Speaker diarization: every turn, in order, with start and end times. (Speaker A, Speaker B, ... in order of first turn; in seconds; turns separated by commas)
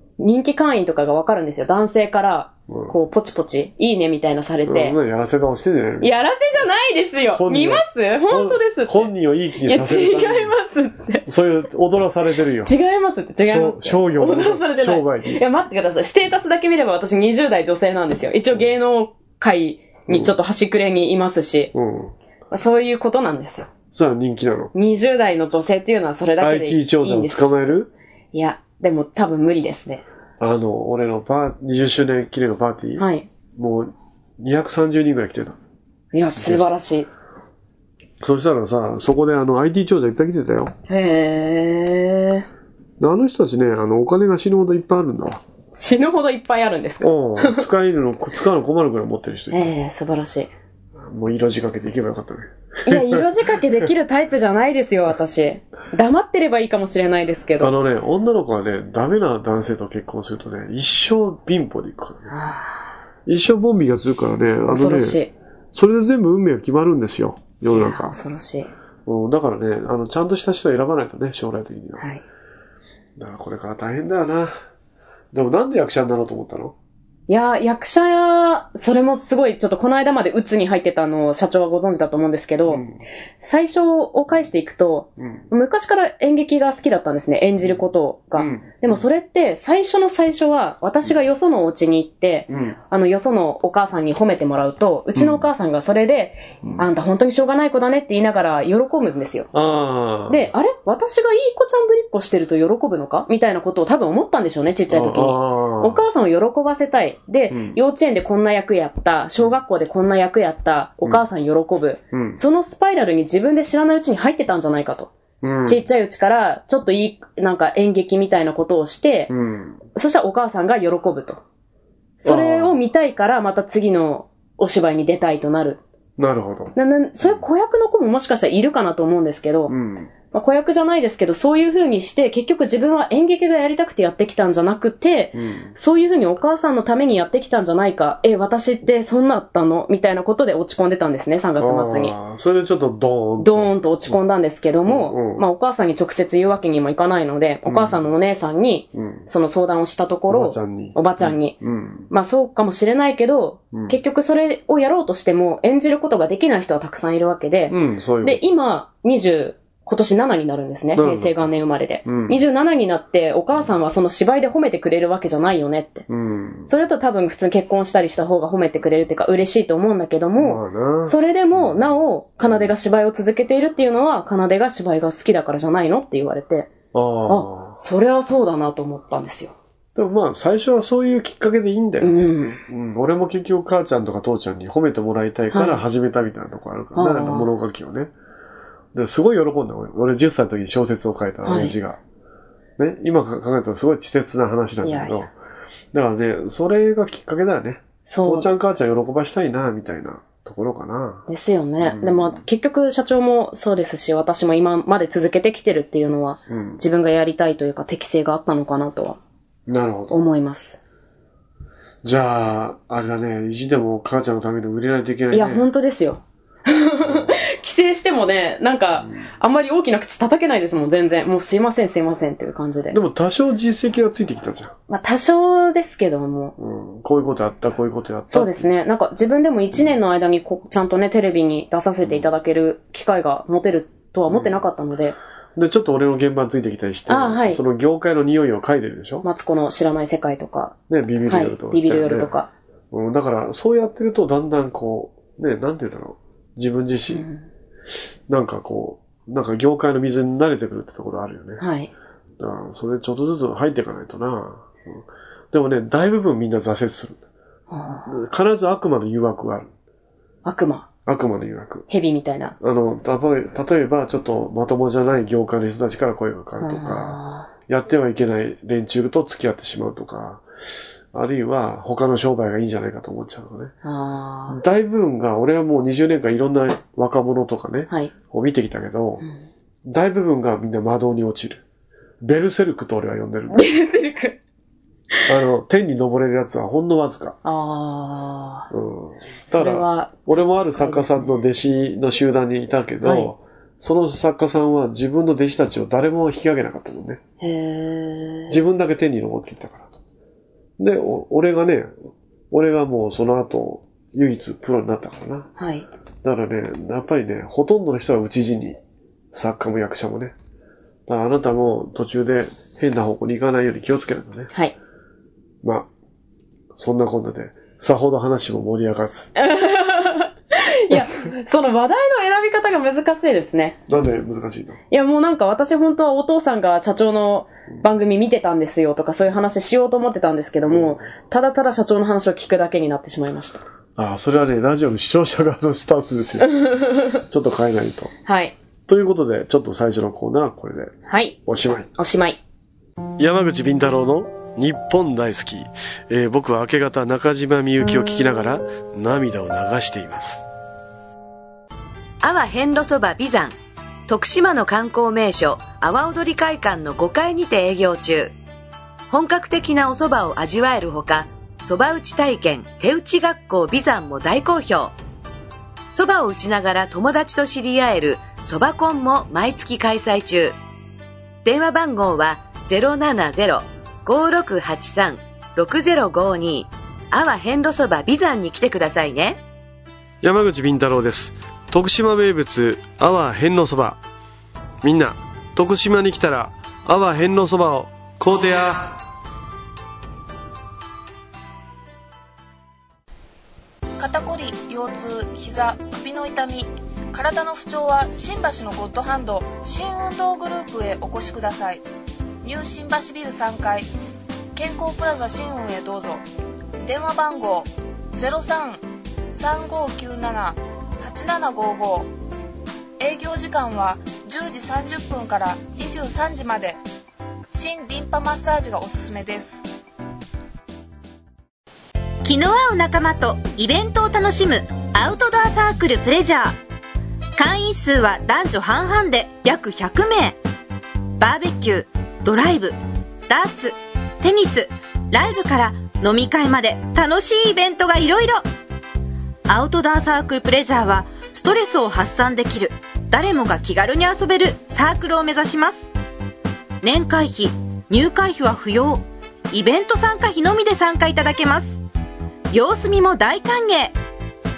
Speaker A: 0.2-5.0, Speaker B: 2.7-3.0, Speaker B: 4.7-6.1, Speaker A: 6.0-9.1, Speaker B: 7.4-10.5, Speaker A: 9.7-11.3, Speaker B: 11.3-12.7, Speaker A: 12.6-21.7, Speaker B: 13.4-15.4, Speaker B: 20.1-20.3, Speaker B: 21.7-22.1, Speaker A: 22.5-23.7, Speaker B: 23.9-24.7, Speaker A: 24.7-27.6, Speaker B: 26.4-27.9, Speaker A: 28.3-30.0, Speaker B: 30.4-35.6, Speaker A: 33.0-33.3, Speaker A: 36.1-37.1, Speaker B: 36.4-36.7, Speaker B: 38.2-40.7, Speaker A: 40.9-42.5, Speaker B: 43.0-45.4, Speaker A: 45.8-47.7, Speaker B: 47.0-49.7, Speaker A: 49.5-50.5, Speaker B: 51.0-53.3, Speaker A: 52.9-57.7, Speaker B: 57.6-62.3, Speaker A: 62.3-62.9, Speaker B: 63.3-65.2, Speaker A: 64.7-65.3, Speaker B: 65.7-68.2, Speaker A: 67.7-68.7, Speaker B: 69.1-72.1, Speaker B: 73.2-74.5, Speaker B: 75.3-76.7, Speaker A: 77.3-82.8, Speaker B: 82.7-83.0, Speaker A: 83.4-99.5, Speaker B: 88.4-89.0, Speaker B: 92.5-92.8, Speaker B: 95.2-95.5, Speaker B: 99.5-100.5, Speaker A: 100.3-115.1, Speaker B: 104.9-106.0, Speaker B: 107.5-107.8, Speaker B: 112.1-112.4, Speaker B: 115.4-115.8, Speaker A: 115.7-119.3, Speaker B: 119.3-119.8, Speaker A: 120.0-121.4, Speaker A: 122.2-125.8, Speaker B: 122.2-122.8, Speaker B: 126.2-127.4, Speaker A: 126.8-129.7, Speaker B: 129.7-130.1, Speaker A: 130.3-142.2, Speaker B: 135.3-135.7, Speaker B: 141.6-144.2, Speaker A: 143.4-151.6, Speaker B: 144.9-145.4, Speaker B: 147.7-148.0, Speaker B: 148.9-149.3, Speaker B: 150.3-152.1, Speaker A: 152.1-166.1, Speaker B: 157.7-158.4, Speaker B: 160.9-161.5, Speaker B: 162.1-162.4, Speaker B: 166.1-166.7, Speaker A: 166.7-176.7, Speaker B: 170.4-172.7, Speaker B: 176.9-177.8, Speaker A: 177.3-179.5, Speaker B: 179.9-188.1, Speaker A: 182.0-182.6, Speaker A: 185.5-185.8, Speaker A: 186.9-187.5, Speaker B: 188.9-192.0, Speaker A: 191.4-191.8, Speaker B: 192.8-195.3, Speaker A: 194.8-195.2, Speaker B: 195.9-201.3, Speaker A: 198.1-198.5, Speaker A: 201.3-209.2, Speaker B: 201.8-202.4, Speaker B: 206.5-206.8, Speaker B: 209.7-210.2, Speaker A: 210.1-210.8, Speaker B: 212.0-215.7, Speaker A: 215.3-223.0, Speaker B: 217.1-217.3, Speaker B: 222.9-224.7, Speaker A: 224.9-226.6, Speaker B: 226.6-228.7, Speaker A: 228.3-235.2, Speaker B: 234.3-234.5, Speaker B: 235.6-239.2, Speaker A: 237.1-237.6, Speaker A: 239.2-242.5, Speaker B: 240.9-242.3, Speaker B: 242.9-247.2, Speaker A: 247.1-247.5, Speaker B: 248.3-251.6, Speaker A: 251.6-251.9, Speaker B: 252.4-257.2, Speaker A: 257.7-258.1, Speaker B: 258.1-259.7, Speaker A: 260.4-260.9, Speaker B: 261.1-261.9, Speaker A: 261.9-262.6, Speaker B: 262.6-270.4, Speaker A: 266.6-267.5, Speaker B: 271.1-273.7, Speaker A: 273.8-274.6, Speaker B: 274.5-279.2, Speaker B: 279.9-281.6, Speaker B: 282.2-283.7, Speaker A: 283.5-284.4, Speaker B: 285.3-287.4, Speaker A: 287.4-288.7, Speaker B: 288.7-297.2, Speaker A: 289.5-291.4, Speaker A: 293.0-293.3, Speaker A: 297.4-298.6, Speaker B: 298.5-299.9, Speaker B: 300.8-301.9, Speaker B: 302.5-305.5, Speaker A: 305.6-305.9, Speaker B: 306.2-308.8, Speaker B: 309.3-310.3, Speaker B: 311.1-314.5, Speaker B: 315.6-315.9, Speaker B: 316.8-319.3, Speaker A: 319.4-323.8, Speaker B: 323.9-324.8, Speaker A: 324.9-333.6, Speaker B: 330.7-331.0, Speaker B: 334.0-338.1, Speaker A: 336.4-337.2, Speaker A: 338.2-338.6, Speaker B: 338.9-340.9, Speaker A: 341.1-341.4, Speaker B: 341.5-341.9, Speaker A: 341.9-342.4, Speaker B: 343.2-350.4, Speaker C: 352.2-353.6, Speaker C: 354.1-358.3, Speaker C: 359.1-364.9, Speaker C: 365.9-370.6, Speaker C: 371.4-379.4, Speaker B: 380.2-384.0, Speaker B: 384.8-389.0, Speaker D: 394.0-401.8, Speaker D: 402.4-403.9, Speaker D: 404.6-406.2, Speaker D: 406.8-412.1, Speaker D: 413.0-416.8, Speaker D: 417.5-419.8, Speaker E: 422.2-426.6, Speaker E: 427.4-430.4, Speaker E: 431.2-432.8, Speaker E: 433.3-438.4, Speaker E: 439.5-445.9, Speaker E: 446.8-451.8, Speaker E: 452.5-453.9